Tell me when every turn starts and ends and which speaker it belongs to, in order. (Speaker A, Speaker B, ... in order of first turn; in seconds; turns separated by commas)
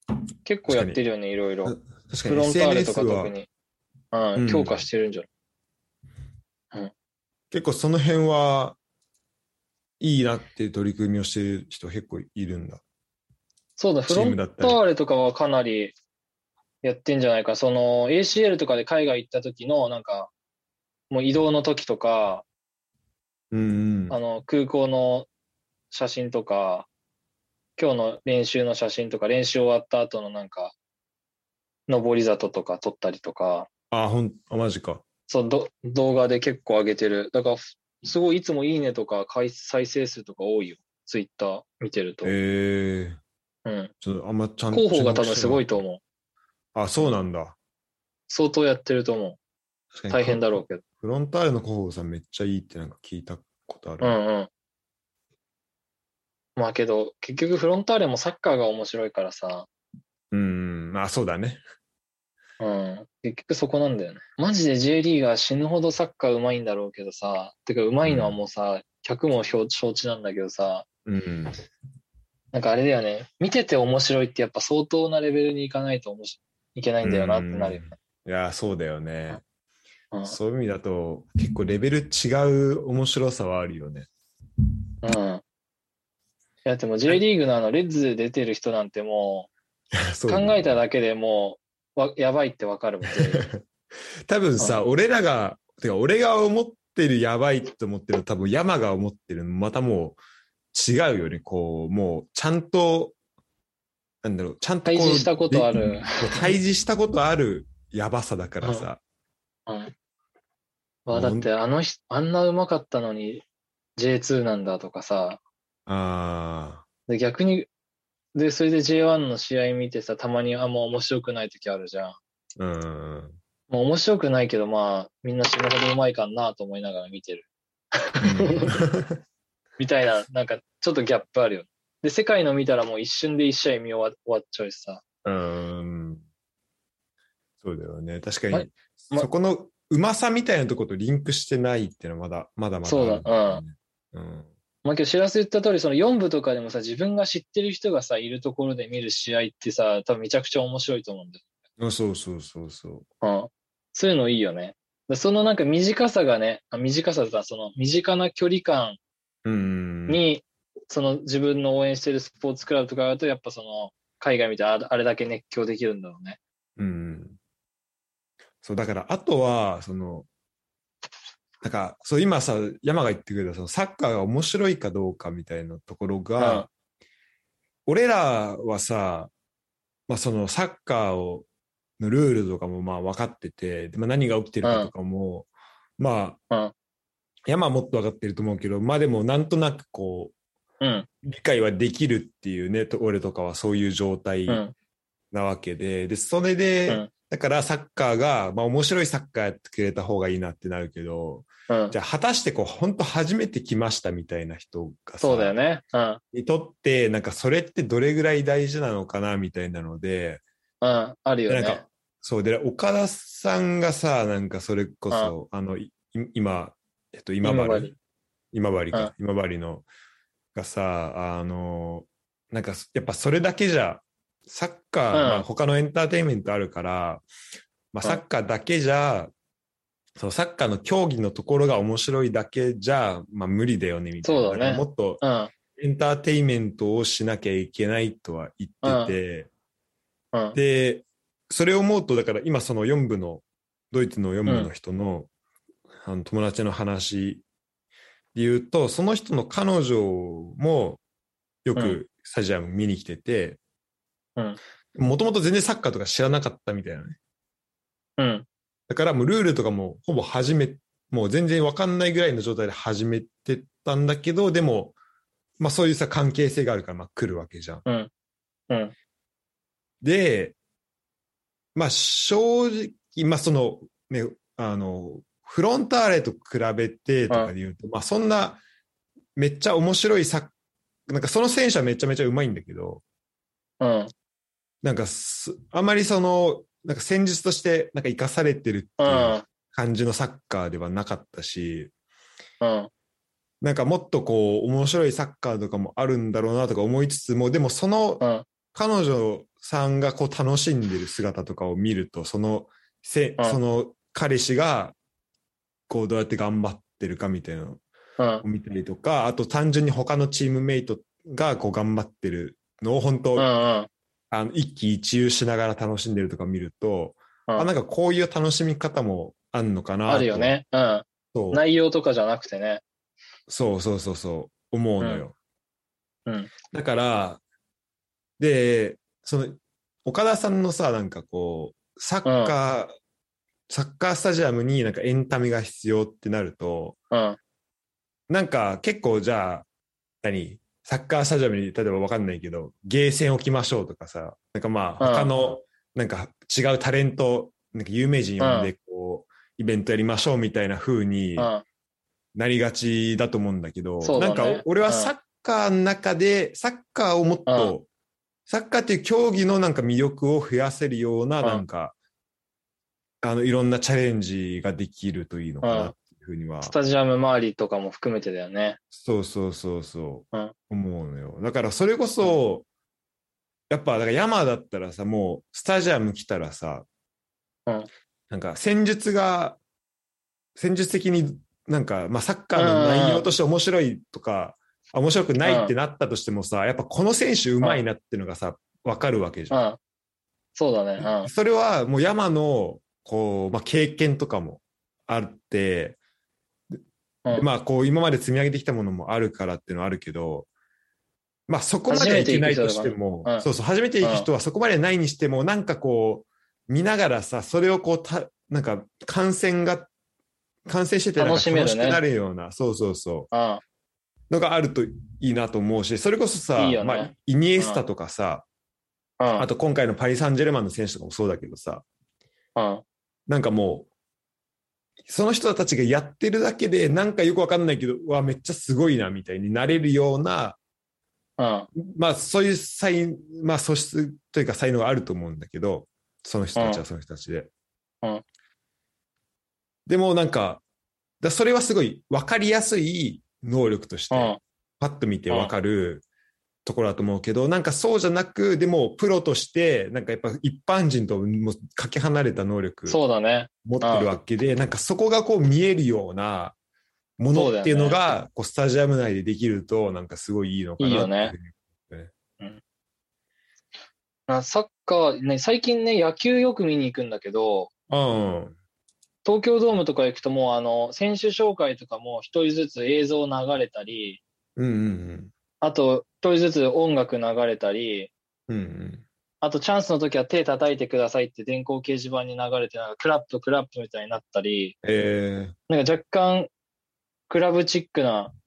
Speaker A: 0.5-3.5, Speaker B: 0.7-1.0, Speaker B: 1.6-3.4, Speaker A: 4.1-5.3, Speaker B: 4.4-4.9, Speaker B: 7.5-8.8, Speaker B: 10.0-12.8, Speaker A: 13.8-15.9, Speaker B: 14.1-14.8, Speaker A: 16.8-20.3, Speaker A: 21.1-22.4, Speaker B: 23.5-24.2, Speaker A: 24.1-25.3, Speaker A: 25.9-26.9, Speaker A: 27.8-30.7, Speaker A: 31.9-33.7, Speaker B: 33.9-35.0, Speaker A: 35.3-42.3, Speaker B: 42.2-43.2, Speaker A: 43.6-43.9, Speaker B: 44.0-45.8, Speaker A: 44.7-46.0, Speaker B: 46.8-47.6, Speaker A: 48.3-49.4, Speaker B: 50.0-54.2, Speaker A: 50.1-50.8, Speaker A: 54.0-54.5, Speaker A: 56.6-59.7, Speaker B: 60.3-61.6, Speaker A: 62.6-70.9, Speaker B: 68.0-68.4, Speaker B: 71.1-71.6, Speaker A: 72.5-77.9, Speaker B: 77.0-79.4, Speaker B: 80.2-84.1, Speaker A: 85.0-85.4, Speaker A: 86.7-89.5, Speaker B: 89.9-90.8, Speaker A: 90.3-93.4, Speaker B: 93.1-93.6, Speaker B: 94.3-100.2, Speaker B: 100.7-103.2, Speaker B: 104.2-109.0, Speaker A: 104.9-106.5, Speaker A: 109.7-109.9, Speaker A: 111.1-113.5, Speaker B: 111.1-111.5, Speaker A: 114.0-115.4, Speaker B: 115.9-116.8, Speaker A: 117.1-117.7, Speaker A: 118.3-122.2, Speaker B: 122.6-123.4, Speaker A: 123.7-128.8, Speaker B: 128.2-129.2, Speaker A: 129.8-135.0, Speaker B: 135.2-136.2, Speaker B: 137.6-144.5, Speaker A: 138.5-139.3, Speaker A: 142.8-143.6, Speaker A: 144.8-151.4, Speaker B: 151.8-153.1, Speaker A: 153.2-159.0, Speaker B: 159.4-160.2, Speaker A: 160.1-166.4, Speaker B: 166.8-167.4, Speaker B: 168.6-170.3, Speaker B: 171.6-176.7, Speaker A: 176.4-176.7, Speaker B: 177.9-179.3, Speaker B: 180.1-181.5, Speaker B: 182.0-186.4, Speaker A: 184.6-184.9, Speaker B: 187.5-190.3, Speaker A: 190.8-191.1, Speaker B: 191.2-194.6, Speaker A: 194.5-194.7, Speaker B: 195.3-205.6, Speaker A: 201.7-201.9, Speaker A: 205.2-206.2, Speaker B: 206.3-210.4, Speaker A: 210.8-211.8, Speaker B: 211.5-217.9, Speaker A: 217.4-217.9, Speaker B: 218.5-219.9, Speaker B: 220.6-227.2, Speaker A: 225.1-225.4, Speaker B: 227.9-229.3, Speaker B: 230.2-235.2, Speaker A: 234.2-235.5, Speaker B: 235.8-239.5, Speaker A: 238.8-239.2, Speaker B: 240.5-245.3, Speaker B: 246.1-247.4, Speaker B: 248.3-251.0, Speaker B: 251.7-253.6, Speaker B: 254.9-257.2, Speaker A: 258.2-258.5, Speaker B: 258.9-265.0, Speaker B: 265.6-267.8, Speaker B: 270.0-270.6, Speaker B: 271.8-278.6, Speaker B: 279.4-280.5, Speaker B: 281.1-283.0, Speaker A: 283.8-284.1, Speaker B: 284.8-291.9, Speaker A: 289.0-289.4, Speaker A: 292.6-292.9, Speaker B: 293.6-304.9, Speaker A: 298.2-298.5, Speaker B: 305.9-307.8, Speaker A: 308.2-308.4, Speaker B: 308.4-313.5, Speaker A: 313.4-313.9, Speaker B: 314.3-320.6, Speaker A: 320.1-322.8, Speaker B: 321.3-321.6, Speaker B: 323.5-325.4, Speaker A: 326.3-326.5, Speaker B: 326.7-327.4, Speaker B: 328.4-332.9, Speaker A: 332.2-332.5, Speaker B: 333.7-337.0, Speaker A: 337.1-337.4, Speaker B: 338.3-339.7, Speaker B: 340.2-351.5, Speaker A: 345.0-345.3, Speaker A: 348.4-348.7, Speaker A: 351.4-351.6, Speaker B: 352.4-357.9, Speaker A: 354.0-355.1, Speaker A: 357.5-357.7, Speaker B: 358.5-361.9, Speaker B: 363.2-366.8, Speaker A: 365.6-365.9, Speaker A: 366.6-368.8, Speaker B: 368.9-372.7, Speaker B: 373.7-376.9, Speaker B: 378.3-379.6, Speaker B: 380.6-389.6, Speaker A: 382.6-383.3, Speaker A: 385.4-385.7, Speaker A: 389.5-389.8, Speaker A: 390.6-391.3, Speaker B: 391.0-396.0, Speaker B: 397.3-400.5, Speaker B: 401.5-409.9, Speaker A: 401.9-403.5, Speaker A: 404.0-404.3, Speaker B: 410.7-413.3, Speaker A: 411.2-412.0, Speaker A: 413.3-413.6, Speaker B: 414.3-418.5, Speaker A: 416.6-417.8, Speaker A: 419.2-419.5, Speaker B: 419.4-421.8, Speaker A: 422.6-422.8, Speaker B: 423.3-423.9, Speaker B: 425.1-430.6, Speaker A: 431.4-431.7, Speaker B: 431.8-437.5, Speaker A: 436.6-436.8, Speaker B: 439.9-440.6, Speaker B: 441.2-446.0, Speaker A: 444.1-444.4, Speaker B: 446.6-453.0, Speaker A: 452.9-454.1, Speaker B: 453.6-456.6, Speaker B: 457.2-462.1, Speaker A: 457.3-458.0, Speaker A: 460.8-461.3, Speaker A: 464.3-467.7, Speaker B: 467.9-468.5, Speaker A: 469.2-474.2, Speaker B: 474.6-475.3, Speaker A: 475.6-478.1, Speaker B: 478.5-479.1, Speaker A: 479.4-484.8, Speaker B: 484.8-485.6, Speaker A: 485.7-486.5, Speaker A: 487.3-488.3